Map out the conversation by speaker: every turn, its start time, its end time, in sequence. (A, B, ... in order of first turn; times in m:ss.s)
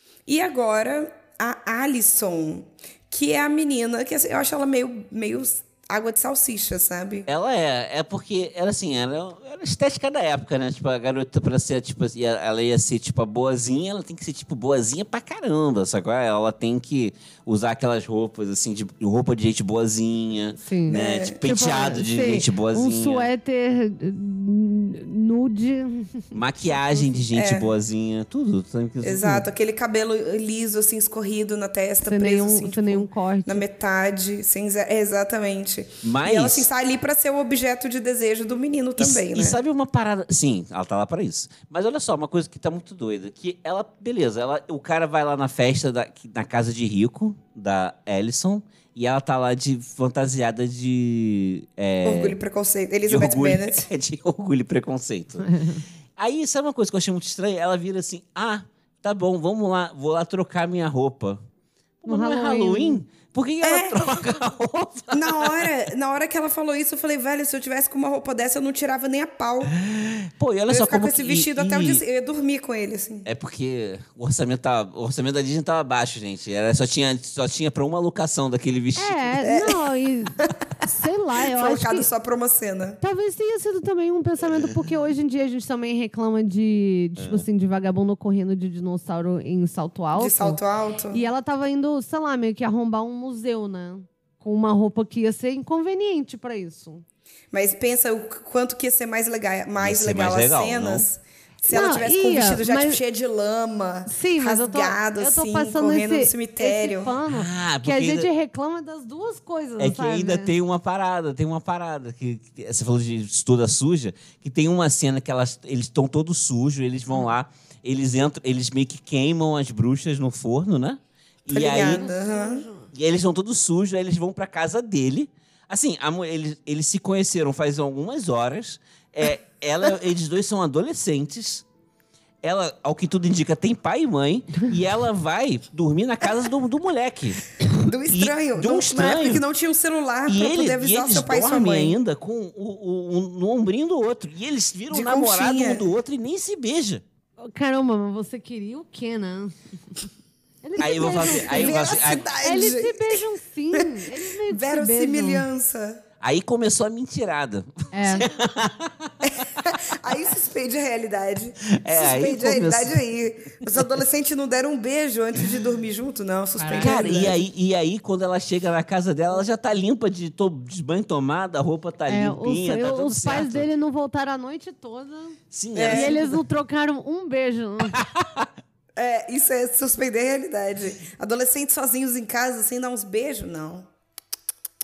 0:00.3-0:07.3 A
0:07.3-0:23.3 B
0:20.6-0:27.0 C
0:20.9-0:21.4 A
0:26.3-0:29.5 B
0:27.3-0:27.7 A
0:29.0-0:39.6 A
0:32.0-0:33.6 C
0:36.0-0:36.7 B
0:39.0-0:52.4 B
0:52.0-0:53.9 A
0:53.0-0:55.5 B
0:55.4-0:55.8 C
0:56.2-1:01.4 B
1:02.0-1:05.7 B
1:02.0-1:03.0 C
1:03.6-1:04.0 A
1:05.1-1:09.8 A
1:09.8-1:12.0 B
1:10.7-1:13.3 A
1:13.2-1:19.4 B
1:19.0-1:22.1 C
1:19.4-1:19.8 A
1:21.4-1:23.0 A
1:23.0-1:30.6 C
1:27.2-1:27.4 B
1:30.1-1:31.2 A
1:31.1-1:37.0 C
1:37.5-1:47.2 A
1:39.8-1:41.1 B
1:41.7-1:43.0 C
1:44.1-1:50.5 C
1:47.2-1:48.3 B
1:49.8-2:02.1 B
2:01.5-2:02.6 A
2:01.8-2:02.9 C
2:02.9-2:11.6 B
2:12.4-2:17.4 B
2:17.6-2:22.0 A
2:18.1-2:19.4 B
2:20.3-2:27.0 B
2:24.9-2:25.9 A
2:27.4-2:30.0 C
2:30.6-2:35.4 C
2:30.8-2:32.3 B
2:31.0-2:36.0 A
2:36.2-2:39.1 B
2:37.9-2:38.3 C
2:39.2-2:47.4 A
2:41.7-2:43.0 B
2:46.6-2:47.2 C
2:46.8-2:53.7 B
2:52.1-2:58.0 C
2:55.5-2:56.3 B
2:55.7-2:56.2 A
2:58.0-2:58.5 B
2:59.0-3:03.8 A